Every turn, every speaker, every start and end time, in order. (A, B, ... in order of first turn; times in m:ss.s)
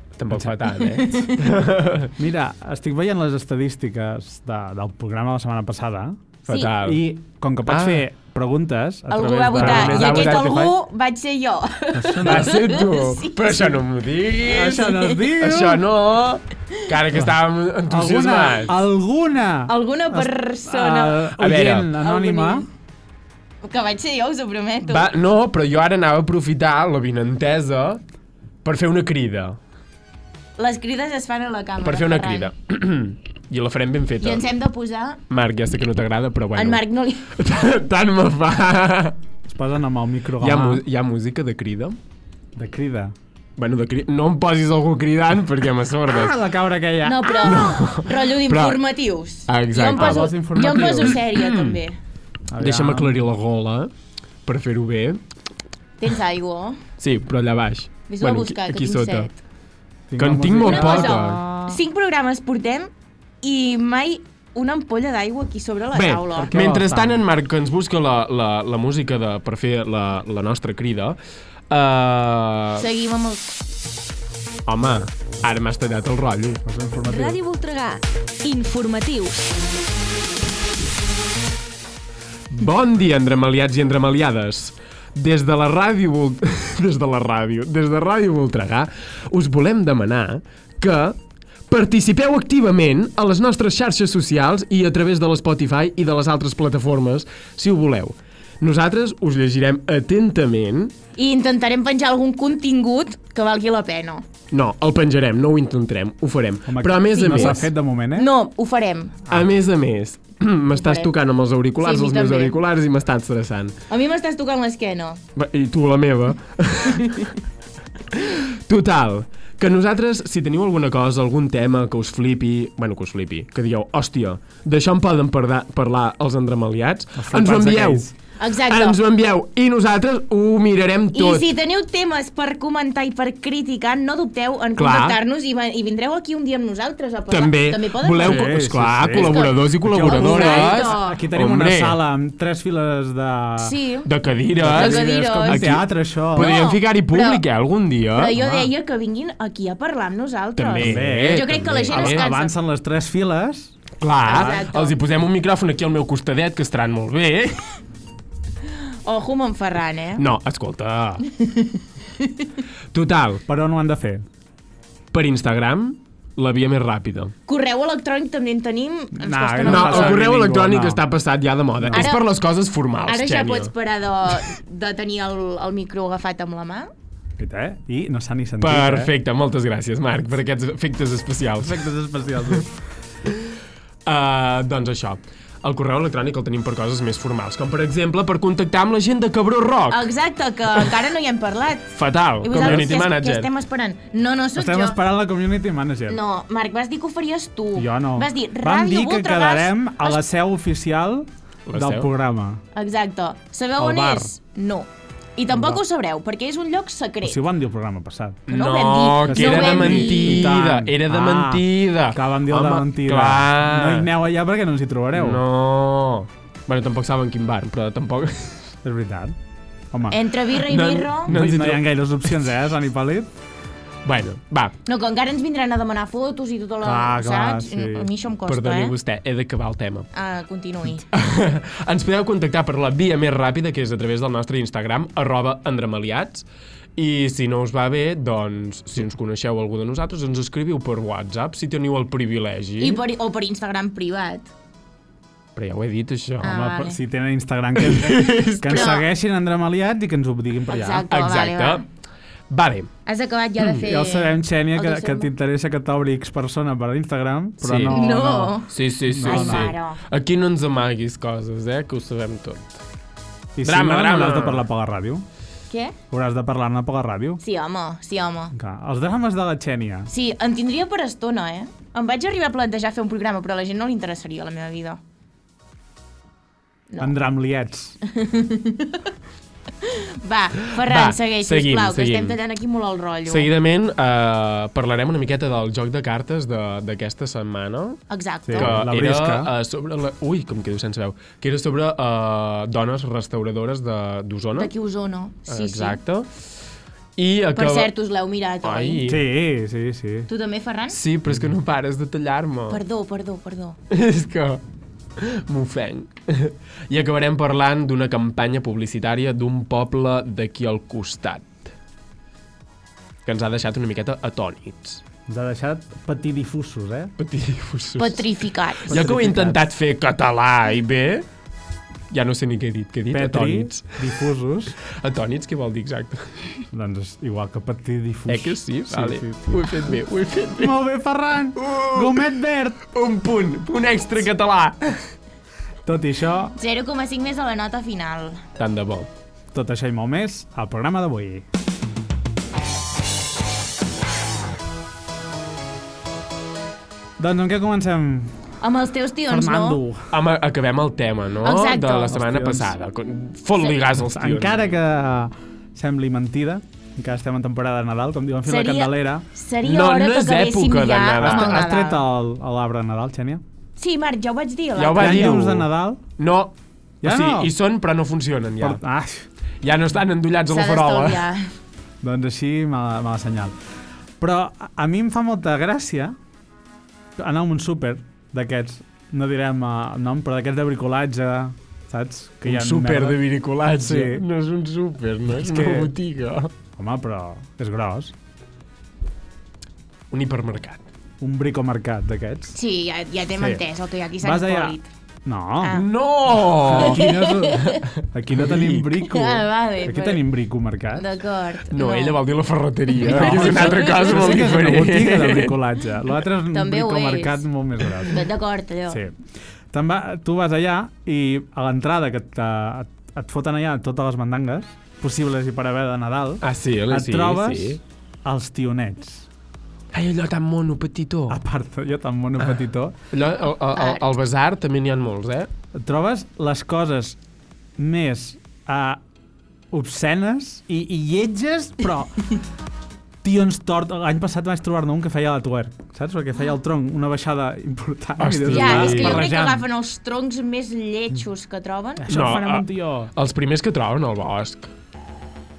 0:00.2-0:02.1 A
0:00.7-0:01.4 B
0:02.2-0:10.8 C
0:06.5-0:07.1 A
0:07.7-0:08.0 A
0:09.1-0:13.8 B
0:09.6-0:10.7 A
0:11.9-0:12.7 C
0:12.2-0:14.9 A
0:14.4-0:15.9 C
0:14.7-0:15.2 B
0:15.4-0:18.7 A
0:17.9-0:22.7 C
0:19.7-0:21.2 B
0:21.4-0:21.9 A
0:22.0-0:22.6 B
0:23.6-0:25.1 B
0:24.9-0:28.0 A
0:28.6-0:29.6 A
0:30.6-0:32.5 B
0:31.8-0:34.4 A
0:34.2-0:35.2 B
0:35.3-0:39.2 A
0:36.6-0:37.3 B
0:39.5-0:40.8 C
0:40.4-0:42.0 A
0:42.6-0:43.1 C
0:43.6-0:46.3 A
0:46.1-0:47.8 C
0:47.0-0:52.0 B
0:47.4-0:48.8 A
0:49.5-0:51.8 A
0:50.0-0:51.2 C
0:52.5-0:53.2 C
0:52.6-0:53.9 A
0:54.5-0:55.2 A
0:56.0-0:56.8 B
0:57.0-0:59.3 A
0:58.1-0:59.4 B
1:00.1-1:01.7 C
1:00.2-1:01.5 A
1:00.6-1:02.9 B
1:03.4-1:06.5 B
1:05.9-1:11.2 A
1:06.5-1:07.2 C
1:11.7-1:12.8 A
1:12.8-1:13.5 B
1:14.7-1:16.6 A
1:16.6-1:17.4 C
1:17.1-1:19.4 B
1:22.5-1:31.2 A
1:31.7-1:40.9 A
1:41.2-1:44.2 B
1:44.5-1:47.6 A
1:46.7-1:48.3 C
1:47.1-1:49.2 B
1:49.3-1:53.8 A
1:50.8-1:51.1 B
1:51.8-1:52.6 B
1:53.9-1:55.2 B
1:55.4-1:57.3 A
1:58.1-2:08.2 A
2:07.2-2:08.1 C
2:08.4-2:09.0 B
2:08.7-2:11.5 A
2:11.1-2:18.4 B
2:14.8-2:15.2 A
2:17.3-2:22.0 A
2:18.2-2:23.8 C
2:19.1-2:21.2 B
2:23.6-2:24.1 B
2:24.1-2:25.8 A
2:24.6-2:26.6 C
2:24.7-2:25.7 B
2:26.4-2:28.4 A
2:26.4-2:27.4 B
2:28.2-2:32.5 B
2:28.4-2:28.7 C
2:30.6-2:32.3 A
2:30.8-2:34.6 C
2:34.0-2:37.6 A
2:34.3-2:35.0 B
2:39.0-2:40.2 B
2:40.2-2:41.2 A
2:41.3-2:42.5 B
2:42.9-2:43.4 A
2:43.5-2:44.2 C
2:45.1-2:47.3 A
2:47.5-2:50.2 B
2:49.1-2:51.0 C
2:49.7-2:53.7 A
2:51.8-2:52.1 C
2:51.9-2:52.3 B
2:53.1-2:56.9 B
2:57.4-2:59.1 C
2:58.6-3:01.9 A
3:01.6-3:02.7 C
3:04.1-3:10.1 A
3:09.9-3:11.9 B
3:11.9-3:13.5 A
3:12.4-3:15.0 B
3:14.6-3:16.2 C
3:16.1-3:20.2 B
3:17.8-3:22.6 C
3:21.7-3:22.1 A
3:22.8-3:27.4 B
3:23.8-3:24.3 C
3:25.5-3:25.8 C
3:27.2-3:28.4 C
3:28.5-3:34.1 A
3:28.5-3:30.5 B
3:29.2-3:35.4 C
3:35.2-3:38.7 A
3:38.8-3:39.4 C
3:39.9-3:40.2 C
3:40.1-3:41.3 B
3:40.5-3:41.8 A
3:41.3-3:43.3 C
3:44.0-3:44.7 A
3:44.9-3:48.9 B
3:46.8-3:48.1 C
3:48.5-3:50.1 A
3:50.1-3:51.0 B
3:51.1-3:56.4 A
3:57.0-4:03.0 A
4:02.8-4:04.5 B
4:05.6-4:06.5 A
4:06.4-4:07.0 B
4:06.4-4:11.1 C
4:07.8-4:08.9 A
4:08.7-4:09.0 B
4:10.7-4:11.8 B
4:11.1-4:11.8 A
4:12.5-4:12.9 A
4:13.1-4:15.3 B
4:13.8-4:19.7 C
4:17.6-4:18.0 A
4:17.9-4:18.7 B
4:18.7-4:22.8 A
4:19.2-4:20.0 B
4:23.6-4:25.2 C
4:23.6-4:24.6 A
4:25.7-4:26.0 B
4:26.1-4:27.4 C
4:27.4-4:28.5 B
4:28.5-4:30.1 C
4:30.1-4:35.0 B
4:36.9-4:37.2 B
4:37.0-4:38.0 C
4:38.0-4:39.1 B
4:39.8-4:43.5 B
4:40.8-4:42.4 A
4:43.3-4:48.0 A
4:48.1-4:48.8 B
4:48.5-4:49.5 C
4:48.6-4:54.7 A
4:54.6-4:56.0 B
4:55.5-4:56.3 A
4:57.2-4:57.9 A
4:57.6-4:59.0 B
4:58.6-4:59.2 A
4:59.1-5:00.3 C
5:00.3-5:01.0 B
5:00.9-5:02.8 A
5:02.7-5:03.8 B
5:03.9-5:04.6 A
5:05.2-5:11.7 A
5:13.2-5:15.0 A
5:15.3-5:17.1 C
5:17.2-5:18.3 A
5:18.0-5:19.1 B
5:18.9-5:19.6 C
5:18.9-5:21.3 A
5:22.1-5:24.0 A
5:23.1-5:24.8 C
5:25.0-5:26.6 A
5:26.7-5:30.0 C
5:28.3-5:30.8 A
5:30.6-5:32.8 C
5:31.6-5:32.3 A
5:32.9-5:35.1 A
5:35.9-5:36.5 C
5:36.6-5:38.4 B
5:38.6-5:39.1 A
5:39.5-5:41.4 C
5:47.2-5:48.3 C
5:48.6-5:49.8 B
5:49.3-5:50.1 C
5:50.1-5:54.7 A
5:51.4-5:52.2 B
5:52.1-5:52.7 C
5:54.0-5:59.2 C
5:58.5-6:02.0 B
5:59.6-6:01.6 A
6:01.2-6:03.4 C
6:03.8-6:05.3 B
6:04.8-6:08.8 A
6:05.0-6:06.0 C
6:07.0-6:07.5 C
6:08.6-6:09.3 C
6:09.6-6:11.3 A
6:10.5-6:11.5 B
6:12.0-6:13.5 C
6:14.2-6:16.2 C
6:17.2-6:23.2 C
6:22.4-6:26.5 A
6:23.8-6:24.2 C
6:25.3-6:25.9 C
6:26.8-6:28.1 C
6:30.1-6:30.8 A
6:31.2-6:32.6 C
6:32.6-6:34.9 B
6:33.4-6:33.6 C
6:34.2-6:35.8 C
6:35.7-6:37.1 A
6:36.6-6:41.1 C
6:36.8-6:37.8 B
6:37.6-6:38.9 A
6:39.0-6:40.2 B
6:40.9-6:42.2 B
6:41.7-6:45.5 A
6:43.0-6:48.1 C
6:43.0-6:44.6 B
6:46.5-6:47.4 B
6:48.1-6:49.0 B
6:48.9-6:49.2 C
6:49.7-6:59.3 C
6:56.4-6:57.8 A
6:59.9-7:01.4 A
7:01.3-7:03.0 C
7:03.1-7:05.5 A
7:03.7-7:04.0 B
7:05.7-7:07.2 C
7:07.8-7:09.0 C
7:09.7-7:12.3 C
7:13.2-7:19.7 C
7:18.2-7:19.3 A
7:18.5-7:22.1 B
7:22.0-7:23.1 C
7:22.1-7:24.7 A